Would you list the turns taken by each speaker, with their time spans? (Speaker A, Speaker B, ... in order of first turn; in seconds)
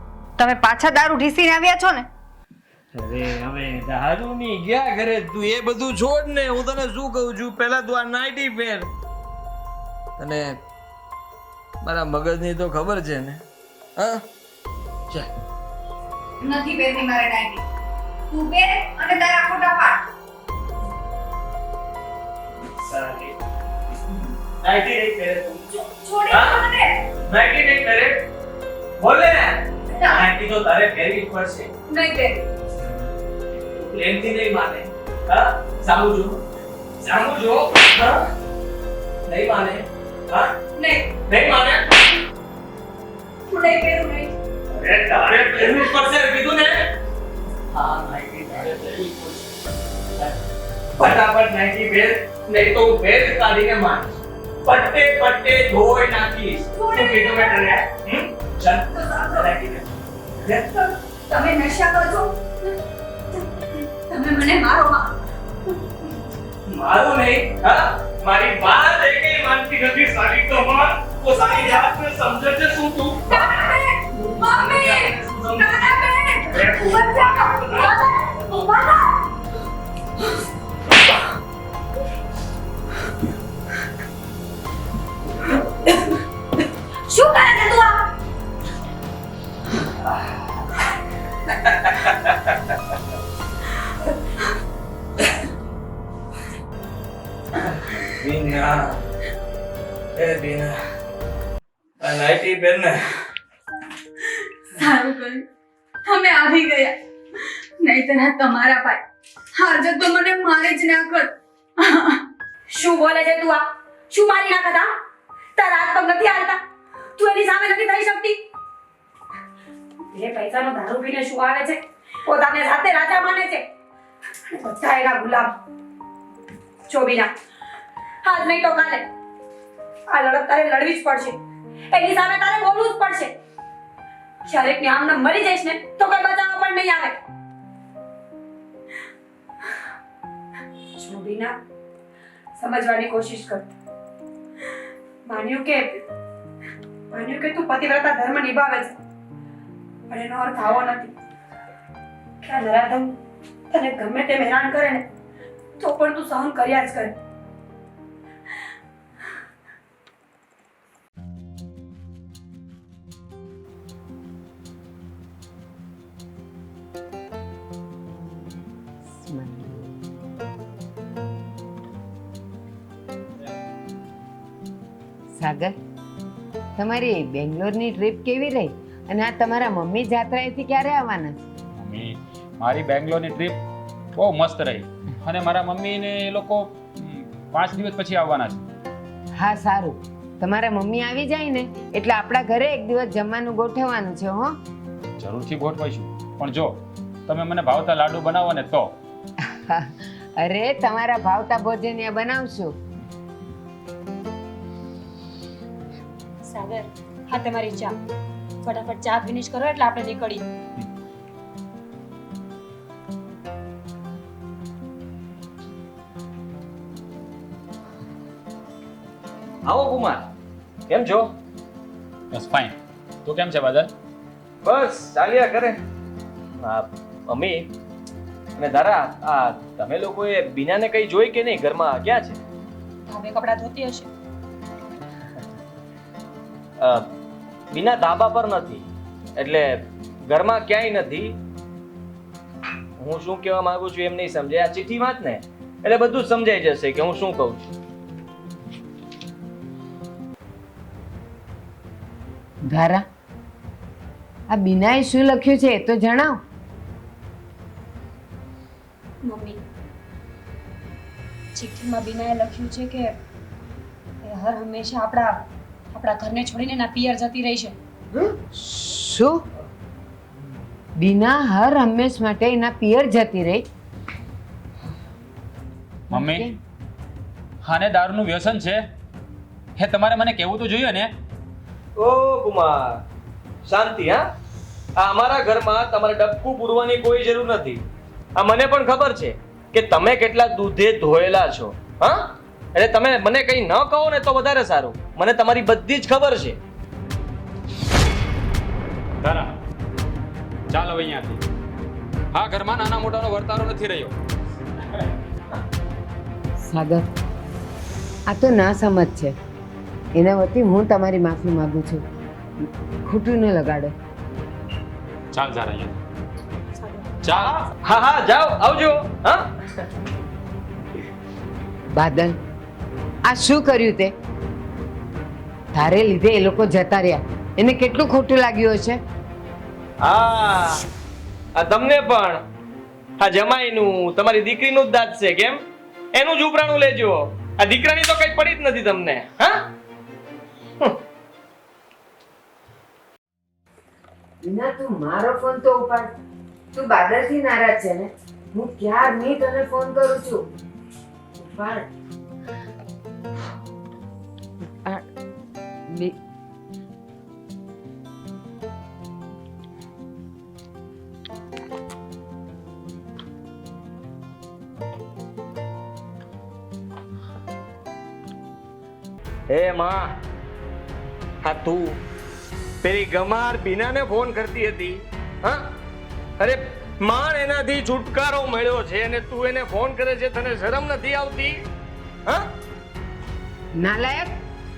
Speaker A: 0.4-2.1, 16.4-17.6, 18.3-20.0, 26.0-27.0, 29.9-30.2, 31.9-32.5, 40.8-41.1, 43.5-44.3, 56.7-57.7, 58.9-59.5, 61.3-62.7, 63.3-65.1, 73.3-79.2, 85.9-86.2, 87.1-88.1, 104.7-105.4, 106.0-112.2
Speaker B: 2.9-8.9, 10.2-10.6, 11.8-13.4, 13.9-14.2, 22.7-23.3, 24.6-26.6, 27.3-28.2, 29.0-31.7, 33.7-36.4, 37.0-38.3, 39.3-40.5, 41.3-42.0, 44.7-46.9, 47.7-49.5, 51.0-54.1, 54.6-59.9, 60.4-60.9, 66.7-73.5, 74.2-77.9, 91.6-92.7, 97.6-99.0, 100.2-100.8, 102.0-103.1, 219.6-220.3, 220.9-221.3, 224.6-225.8, 226.6-227.7, 228.6-232.4, 236.8-237.1, 237.7-238.8, 239.3-241.3, 243.0-247.7, 282.0-283.0, 283.6-284.2, 285.0-287.8, 288.4-296.6, 317.2-319.5, 330.0-330.9, 331.5-332.4, 333.2-335.6, 336.1-339.7, 369.5-370.1, 371.4-372.0, 372.8-375.7, 376.4-381.6
Speaker C: 112.7-114.9, 115.5-116.6, 117.2-118.4, 120.1-123.7, 124.5-125.6, 126.9-127.3, 128.2-129.1, 130.1-131.4, 131.9-133.3, 134.4-137.2, 141.0-141.6, 142.6-143.7, 145.2-146.0, 147.1-149.0, 150.1-151.1, 152.4-153.2, 153.7-155.0, 155.8-157.1, 206.4-207.9, 208.6-210.4, 233.1-234.1, 259.2-259.6, 261.5-263.1, 264.2-267.8, 316.8-317.2
Speaker D: 169.1-170.0, 175.3-175.8, 176.8-181.4, 189.3-194.5, 199.4-202.8, 252.7-253.0, 254.5-256.4, 268.1-269.4, 271.0-273.6, 276.1-276.6, 306.6-307.1, 308.3-309.4, 310.1-312.0, 312.6-313.9, 321.9-322.4, 323.2-324.1, 325.7-329.0, 344.4-346.1, 346.7-350.4, 351.4-351.9, 354.6-355.1, 355.9-356.2, 383.8-384.4
Speaker E: 181.8-183.6, 184.1-188.6, 195.2-198.9, 222.3-223.9, 276.1-276.5, 277.6-278.8, 279.8-281.1, 299.2-299.5, 300.7-301.4, 302.3-304.1, 315.3-316.0, 317.2-317.6